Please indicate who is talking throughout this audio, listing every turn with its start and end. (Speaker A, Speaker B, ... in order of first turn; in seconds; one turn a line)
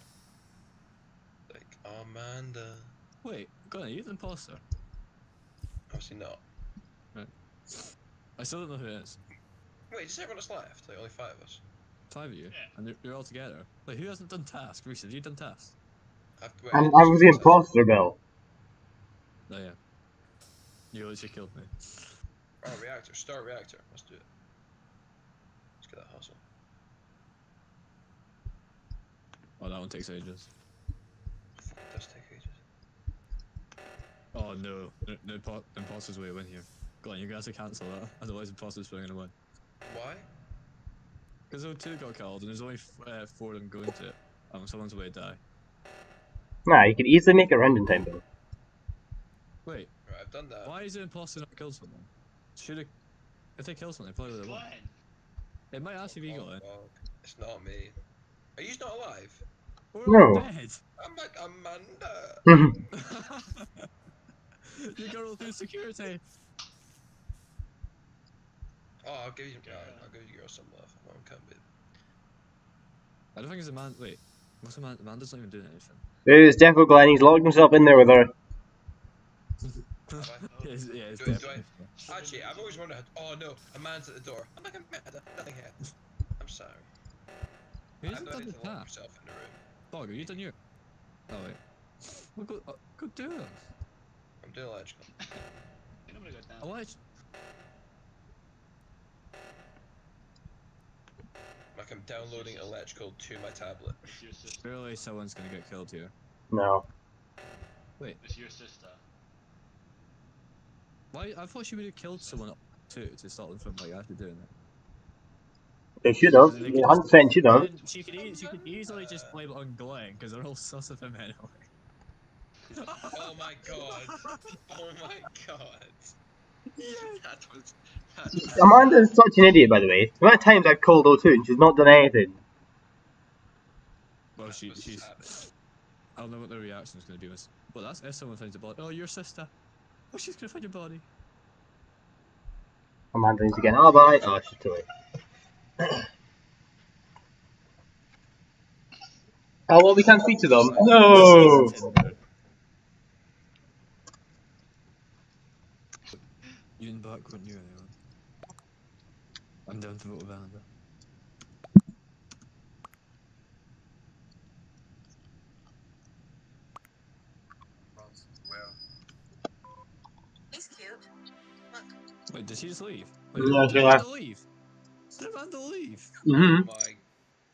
Speaker A: 1.5-2.9
Speaker B: 3.2-4.6
Speaker A: 5.9-6.4
Speaker B: 7.1-7.8
Speaker B: 8.4-9.2
Speaker A: 9.9-11.6
Speaker B: 12.1-15.8
Speaker A: 16.4-17.6
Speaker C: 16.7-18.2
Speaker B: 19.5-19.8
Speaker B: 20.9-22.1
Speaker A: 22.6-24.3
Speaker A: 25.8-26.4
Speaker B: 29.6-30.5
Speaker A: 31.6-32.6
Speaker B: 34.3-39.3
Speaker A: 39.9-40.3
Speaker B: 41.5-45.4
Speaker C: 46.7-48.2
Speaker B: 49.6-49.9
Speaker A: 50.1-50.8
Speaker B: 50.6-52.9
Speaker B: 53.6-54.6
Speaker D: 54.2-54.9
Speaker B: 55.7-56.6
Speaker A: 56.0-58.0
Speaker A: 58.6-59.4
Speaker B: 59.9-60.8
Speaker C: 60.1-60.5
Speaker A: 61.0-62.5
Speaker C: 62.5-62.7
Speaker B: 63.0-63.9
Speaker B: 64.7-66.2
Speaker A: 69.0-71.7
Speaker D: 69.6-70.1
Speaker B: 73.3-76.0
Speaker C: 76.3-78.3
Speaker B: 79.6-81.9
Speaker A: 80.1-80.5
Speaker D: 80.5-83.0
Speaker A: 81.2-85.8
Speaker A: 86.4-86.9
Speaker B: 88.0-88.9
Speaker A: 88.1-90.4
Speaker B: 89.9-90.5
Speaker B: 91.3-93.6
Speaker A: 94.4-95.0
Speaker D: 95.2-95.5
Speaker D: 96.1-96.8
Speaker B: 96.6-97.0
Speaker A: 101.8-104.1
Speaker D: 102.2-102.8
Speaker D: 104.1-104.8
Speaker B: 104.6-106.1
Speaker C: 106.5-106.8
Speaker D: 108.2-109.0
Speaker B: 111.1-114.5
Speaker D: 112.1-112.4
Speaker C: 116.0-117.7
Speaker D: 116.3-118.1
Speaker B: 116.4-121.6
Speaker A: 118.0-119.3
Speaker B: 122.8-123.2
Speaker A: 123.1-126.2
Speaker B: 123.9-124.4
Speaker B: 126.8-127.2
Speaker A: 126.9-129.1
Speaker C: 128.3-132.4
Speaker B: 134.3-135.2
Speaker A: 134.4-135.3
Speaker B: 136.2-139.5
Speaker B: 140.1-141.1
Speaker C: 143.1-144.8
Speaker C: 149.7-151.8
Speaker A: 150.2-151.4
Speaker B: 151.0-152.2
Speaker B: 156.8-157.9
Speaker B: 159.7-160.7
Speaker A: 168.0-168.8
Speaker B: 172.3-174.4
Speaker C: 173.4-174.0
Speaker B: 175.1-176.1
Speaker C: 176.3-176.7
Speaker A: 176.3-177.0